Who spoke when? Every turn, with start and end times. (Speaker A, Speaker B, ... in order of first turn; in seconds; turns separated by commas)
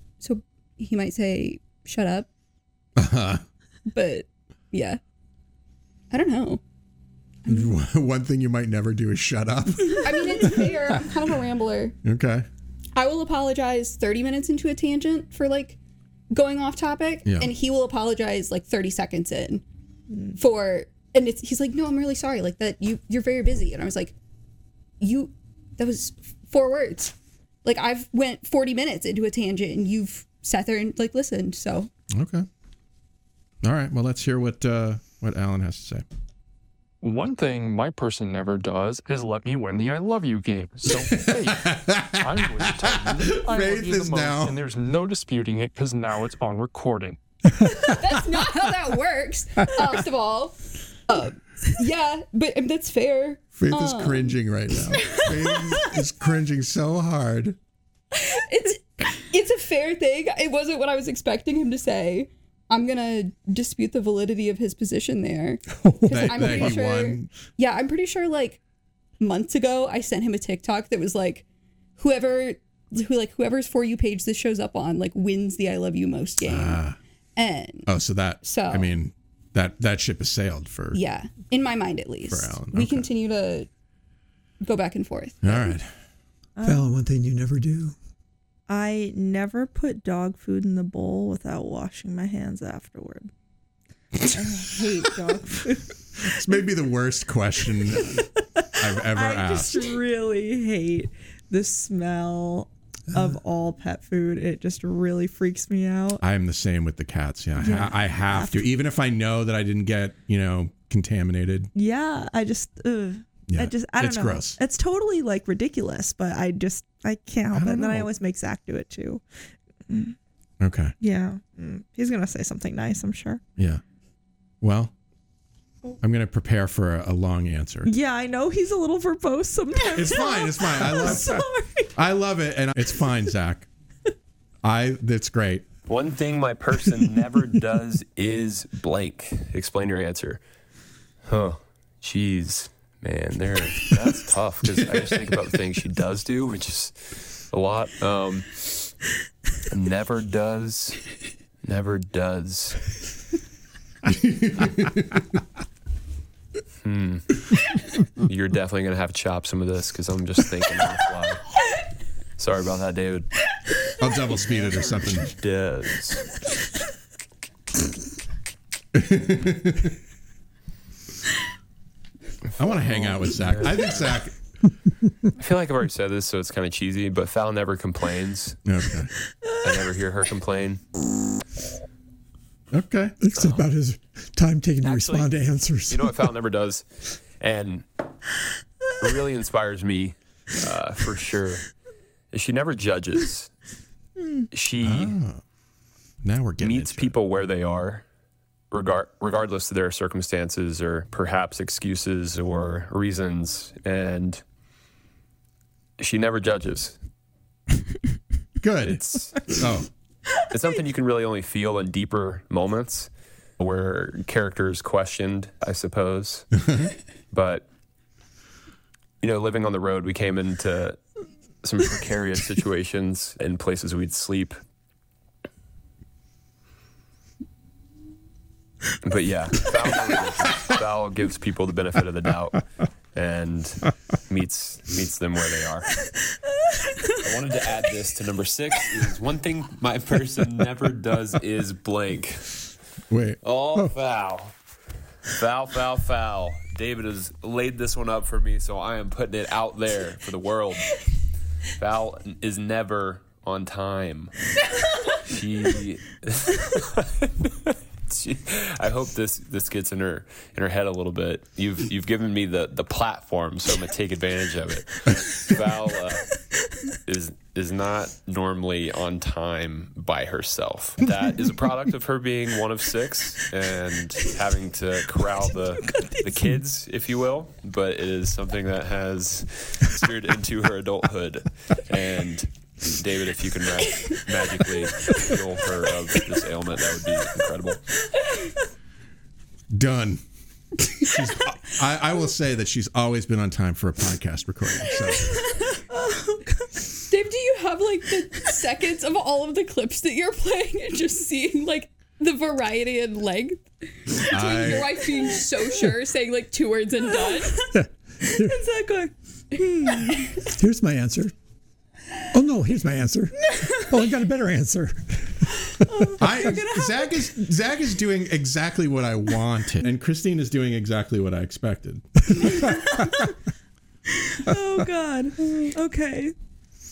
Speaker A: 0.2-2.3, Speaker B: 3.0-3.4, Speaker A: 3.9-5.0, Speaker A: 6.1-6.6, Speaker A: 7.4-7.7, Speaker B: 7.5-10.7, Speaker A: 10.0-11.9, Speaker B: 12.0-12.5, Speaker A: 12.9-15.8, Speaker A: 16.3-19.6, Speaker B: 17.2-17.5, Speaker A: 20.4-24.1, Speaker A: 25.0-31.9, Speaker B: 32.1-32.5, Speaker B: 33.6-36.0, Speaker C: 37.0-47.2, Speaker B: 40.9-44.6, Speaker D: 47.6-47.9, Speaker A: 47.8-55.9, Speaker B: 53.5-57.6, Speaker A: 58.1-68.6, Speaker D: 65.7-66.8, Speaker B: 66.1-67.3, Speaker A: 69.2-71.5, Speaker A: 72.0-76.8, Speaker B: 76.4-77.0, Speaker A: 77.3-77.9, Speaker B: 77.8-81.0, Speaker A: 78.4-78.9, Speaker A: 80.9-83.7, Speaker B: 82.3-83.1, Speaker A: 84.6-85.7, Speaker B: 85.4-85.9, Speaker E: 86.6-86.9, Speaker D: 86.6-88.0, Speaker E: 88.7-93.3, Speaker E: 94.3-96.6, Speaker B: 96.3-98.2, Speaker E: 98.7-106.2, Speaker B: 98.8-99.9, Speaker B: 106.2-111.7, Speaker E: 107.6-108.7, Speaker E: 111.7-119.2, Speaker B: 113.5-114.6, Speaker B: 117.5-118.1, Speaker E: 119.9-120.2, Speaker B: 120.6-120.9, Speaker E: 121.0-123.4, Speaker B: 123.6-123.8, Speaker B: 124.6-124.9, Speaker B: 126.0-127.9, Speaker E: 127.8-131.9, Speaker B: 129.9-131.4, Speaker B: 131.9-133.7, Speaker B: 134.6-135.7, Speaker F: 135.9-140.4, Speaker F: 141.3-148.9, Speaker B: 144.6-145.5, Speaker F: 149.7-151.0, Speaker F: 151.6-152.9, Speaker B: 154.0-155.2, Speaker F: 156.8-157.4, Speaker F: 158.2-161.5, Speaker F: 162.4-163.3, Speaker B: 164.0-165.3, Speaker F: 164.5-166.3, Speaker B: 168.9-170.0, Speaker B: 172.6-174.3, Speaker F: 172.7-174.0, Speaker F: 175.4-178.6, Speaker B: 178.6-179.1, Speaker F: 179.6-180.8, Speaker B: 182.7-183.2, Speaker D: 183.2-186.3, Speaker F: 183.4-183.6, Speaker F: 184.8-185.3, Speaker F: 185.8-187.8, Speaker F: 189.0-191.6, Speaker F: 192.3-193.5, Speaker E: 194.2-194.5, Speaker F: 194.5-195.1, Speaker B: 194.8-195.4, Speaker B: 196.2-197.2, Speaker F: 196.6-198.0, Speaker F: 198.7-204.4, Speaker F: 206.0-206.9, Speaker B: 208.6-209.9, Speaker F: 208.8-209.5, Speaker F: 210.5-216.7, Speaker B: 216.6-216.9, Speaker F: 217.3-217.6, Speaker F: 219.2-221.0, Speaker F: 221.6-224.6, Speaker F: 229.0-235.9, Speaker F: 237.2-242.7, Speaker B: 243.1-243.4, Speaker F: 243.4-244.5, Speaker F: 245.3-251.0, Speaker F: 251.7-254.3, Speaker F: 255.2-266.3, Speaker F: 267.1-287.9, Speaker E: 275.8-276.5, Speaker B: 289.7-290.2, Speaker B: 290.9-295.3, Speaker E: 295.1-296.8, Speaker A: 297.1-307.6, Speaker B: 304.3-304.9, Speaker D: 307.7-308.6, Speaker E: 308.2-310.1, Speaker D: 310.5-311.3, Speaker D: 312.3-315.5, Speaker E: 315.9-317.1, Speaker B: 316.2-322.7, Speaker E: 322.7-323.3, Speaker E: 324.2-326.3